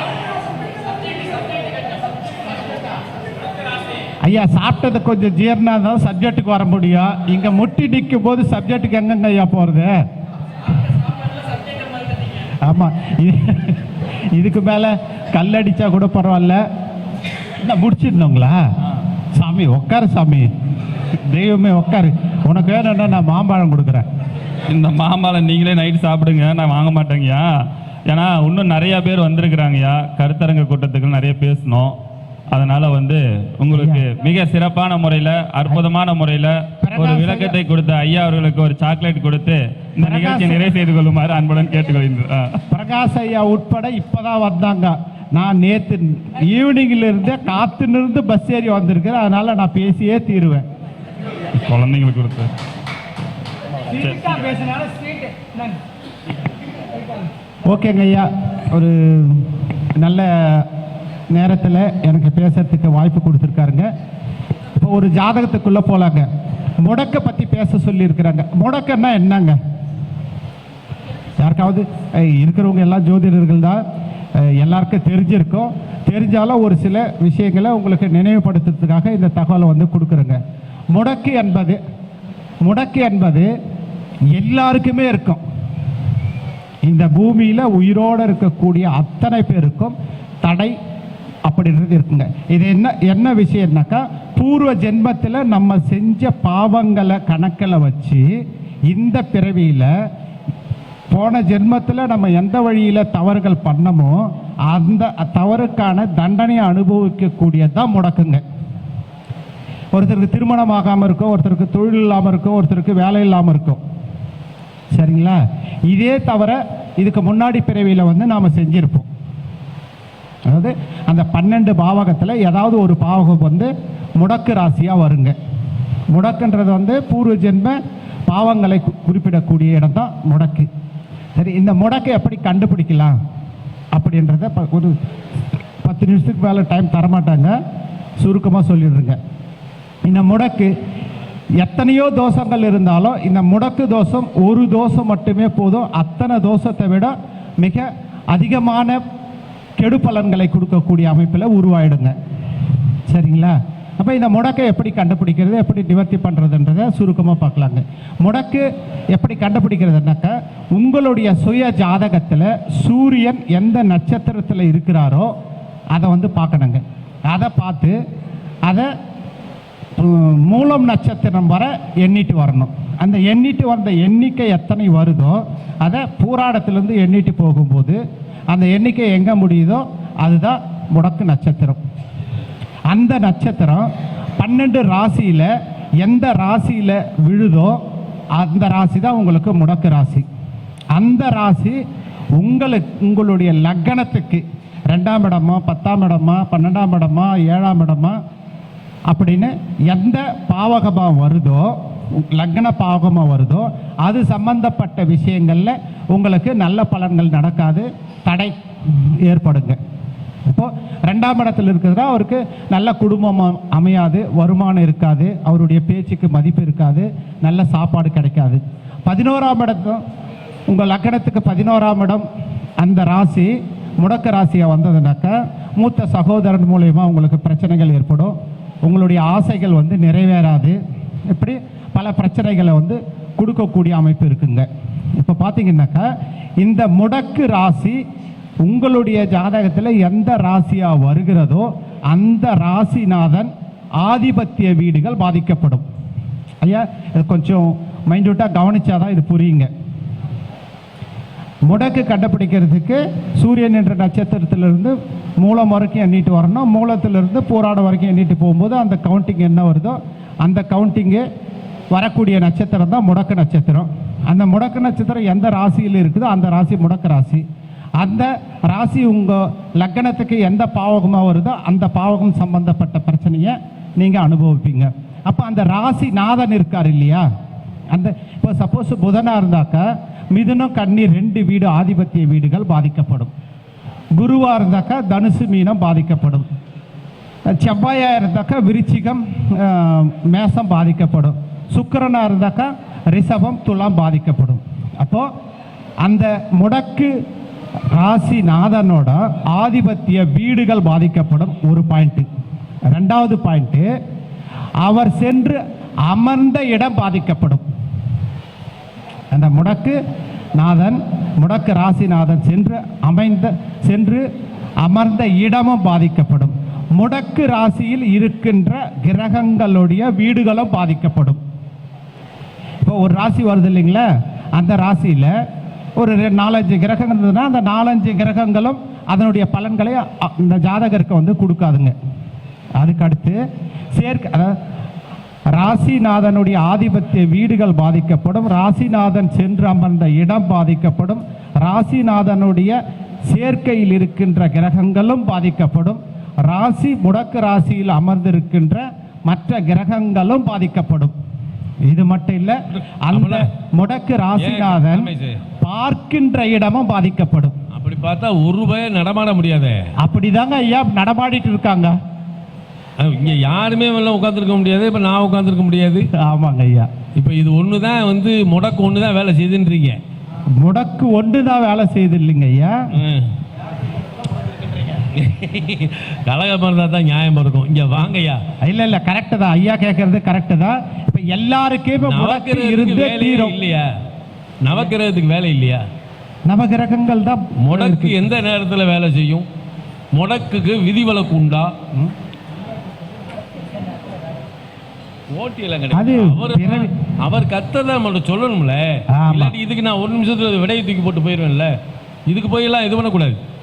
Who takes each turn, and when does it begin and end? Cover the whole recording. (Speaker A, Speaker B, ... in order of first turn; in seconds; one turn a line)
Speaker A: 4.2-9.9
Speaker A: 12.6-13.8
Speaker A: 14.3-16.6
Speaker A: 17.6-18.6
Speaker A: 19.3-20.5
Speaker A: 21.3-24.1
Speaker B: 24.7-27.5
Speaker B: 28.1-32.0
Speaker B: 32.5-42.6
Speaker A: 33.7-34.1
Speaker A: 36.8-37.6
Speaker A: 40.0-40.6
Speaker A: 42.7-50.6
Speaker B: 51.6-52.5
Speaker B: 53.9-54.6
Speaker A: 57.7-60.7
Speaker A: 61.3-63.9
Speaker A: 64.8-66.3
Speaker A: 66.8-69.6
Speaker A: 71.4-73.8
Speaker A: 74.4-80.4
Speaker A: 80.9-81.8
Speaker A: 82.6-83.5
Speaker A: 84.3-85.4
Speaker A: 86.9-90.8
Speaker A: 91.5-98.3
Speaker A: 98.9-99.9
Speaker A: 101.1-108.4
Speaker A: 109.9-113.8
Speaker A: 114.9-119.1
Speaker A: 120.5-125.4
Speaker A: 126.1-130.7
Speaker A: 131.4-133.2
Speaker A: 133.9-135.0
Speaker A: 135.8-137.6
Speaker A: 138.2-139.2
Speaker A: 140.1-140.7
Speaker A: 141.6-149.0
Speaker A: 149.8-152.2
Speaker A: 153.1-165.3
Speaker A: 165.9-168.0
Speaker A: 170.0-178.0
Speaker A: 178.5-181.8
Speaker A: 182.9-187.8
Speaker A: 188.4-190.3
Speaker A: 190.9-191.8
Speaker A: 192.4-198.2
Speaker A: 199.1-209.8
Speaker A: 210.5-220.0
Speaker A: 220.7-222.3
Speaker A: 222.8-230.8
Speaker A: 231.3-236.1
Speaker A: 236.6-238.0
Speaker A: 238.6-245.8
Speaker A: 246.6-249.7
Speaker A: 251.7-261.2
Speaker A: 261.9-267.4
Speaker A: 268.0-277.2
Speaker A: 277.9-283.3
Speaker A: 284.2-286.5
Speaker A: 287.5-295.3
Speaker A: 296.1-297.1
Speaker A: 297.9-302.3
Speaker A: 302.9-303.9
Speaker A: 304.8-307.6
Speaker A: 309.3-310.0
Speaker A: 310.6-314.2
Speaker A: 314.8-321.4
Speaker A: 322.9-325.4
Speaker A: 326.0-331.9
Speaker A: 332.8-333.4
Speaker A: 333.9-334.6
Speaker A: 335.6-351.1
Speaker A: 351.9-357.6
Speaker C: 352.7-353.4
Speaker C: 354.4-355.4
Speaker C: 357.7-359.8
Speaker A: 360.0-361.9
Speaker C: 363.0-366.1
Speaker A: 366.1-366.9
Speaker C: 367.2-370.0
Speaker A: 370.6-372.9
Speaker C: 372.9-373.3
Speaker C: 375.1-378.4
Speaker A: 378.6-383.6
Speaker C: 382.1-383.9
Speaker C: 384.6-385.8
Speaker A: 386.5-388.2
Speaker C: 387.6-389.5
Speaker C: 390.1-391.8
Speaker C: 395.3-401.7
Speaker A: 395.9-396.9
Speaker A: 399.1-399.6
Speaker C: 402.3-403.4